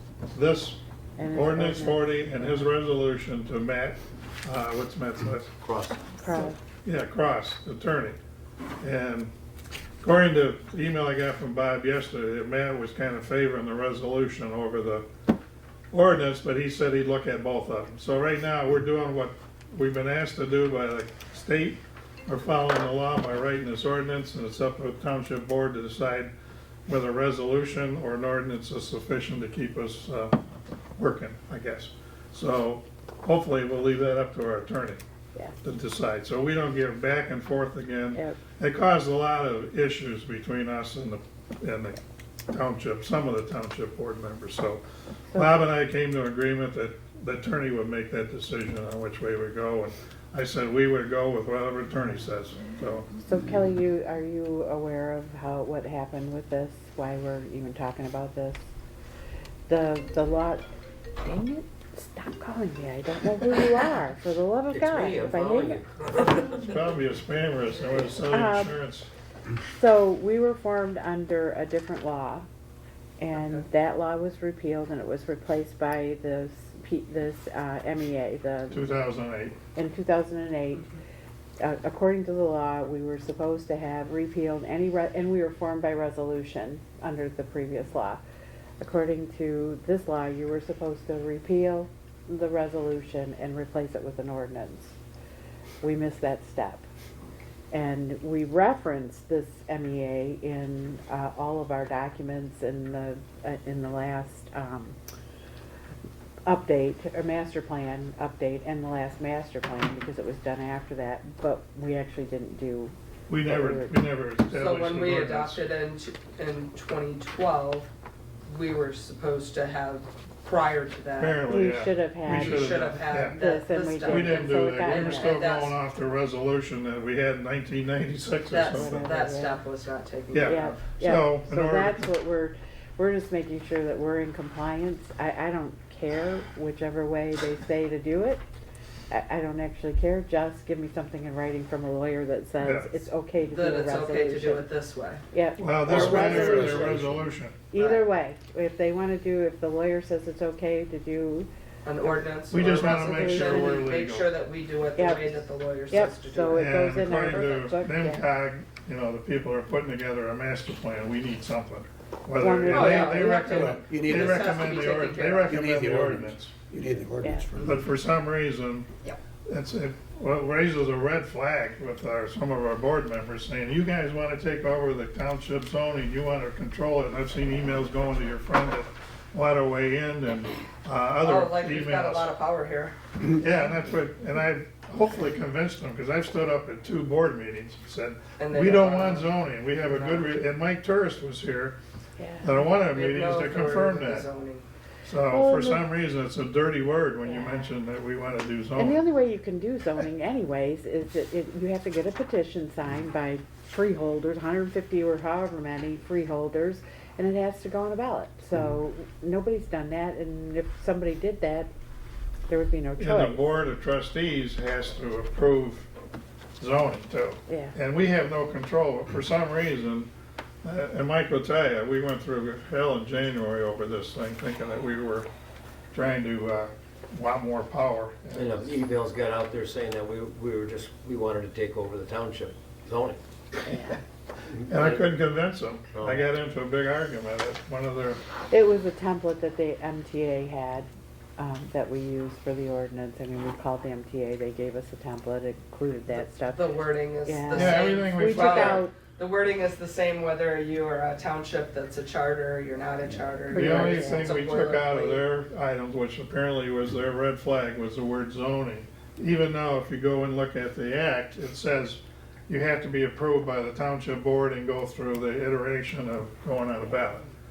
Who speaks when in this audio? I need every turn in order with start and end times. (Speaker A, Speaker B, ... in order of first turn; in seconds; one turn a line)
Speaker A: 0.3-5.5
Speaker B: 1.2-2.7
Speaker C: 5.6-6.1
Speaker B: 6.2-6.6
Speaker A: 6.8-8.2
Speaker A: 8.8-9.3
Speaker A: 10.0-15.1
Speaker A: 15.9-26.3
Speaker A: 26.9-30.4
Speaker A: 31.0-35.0
Speaker A: 35.6-42.0
Speaker A: 42.5-44.8
Speaker A: 45.3-53.1
Speaker B: 53.2-58.6
Speaker B: 59.7-60.6
Speaker B: 61.2-66.6
Speaker C: 64.7-66.5
Speaker A: 66.5-69.1
Speaker B: 68.3-68.8
Speaker B: 69.7-72.5
Speaker B: 73.2-78.9
Speaker D: 73.3-73.7
Speaker A: 78.7-79.6
Speaker B: 79.8-80.8
Speaker B: 81.6-88.2
Speaker B: 88.8-95.0
Speaker B: 95.8-96.8
Speaker B: 97.7-105.0
Speaker B: 106.5-114.0
Speaker A: 113.3-115.7
Speaker D: 114.5-117.9
Speaker D: 118.5-121.4
Speaker A: 121.2-123.4
Speaker B: 121.5-122.7
Speaker D: 122.3-125.8
Speaker B: 123.3-125.3
Speaker A: 124.0-129.1
Speaker D: 128.5-130.8
Speaker B: 128.7-129.5
Speaker A: 130.3-132.1
Speaker B: 130.4-138.4
Speaker B: 139.1-144.6
Speaker A: 142.6-143.0
Speaker D: 143.5-145.2
Speaker B: 145.3-147.1
Speaker A: 145.6-147.6
Speaker E: 145.9-146.5
Speaker C: 146.6-147.0
Speaker B: 147.7-151.5
Speaker D: 147.7-148.1
Speaker D: 151.8-157.2
Speaker A: 152.5-154.3
Speaker B: 152.6-153.8
Speaker B: 154.9-155.3
Speaker B: 155.9-158.2
Speaker A: 156.5-166.5
Speaker B: 162.4-163.7
Speaker D: 162.7-165.5
Speaker E: 163.4-164.3
Speaker E: 165.5-167.8
Speaker B: 167.2-167.5
Speaker A: 167.6-168.9
Speaker A: 169.5-182.3
Speaker D: 181.2-183.0
Speaker A: 183.3-191.8
Speaker D: 188.4-190.3
Speaker B: 192.2-192.7
Speaker A: 192.4-194.3
Speaker D: 192.9-194.6
Speaker A: 195.0-199.0
Speaker B: 195.3-195.8
Speaker B: 197.2-197.7
Speaker B: 198.8-211.7
Speaker B: 212.5-213.7
Speaker A: 213.0-215.9
Speaker A: 216.6-220.1
Speaker B: 217.5-217.7
Speaker A: 220.6-225.3
Speaker A: 225.9-228.7
Speaker C: 228.3-233.2
Speaker B: 233.6-234.0
Speaker C: 234.5-235.0
Speaker A: 234.7-238.2
Speaker C: 235.9-236.2
Speaker B: 238.5-246.7
Speaker D: 246.5-255.2
Speaker B: 247.2-248.9
Speaker A: 247.5-248.8
Speaker A: 253.5-267.2
Speaker B: 253.5-254.4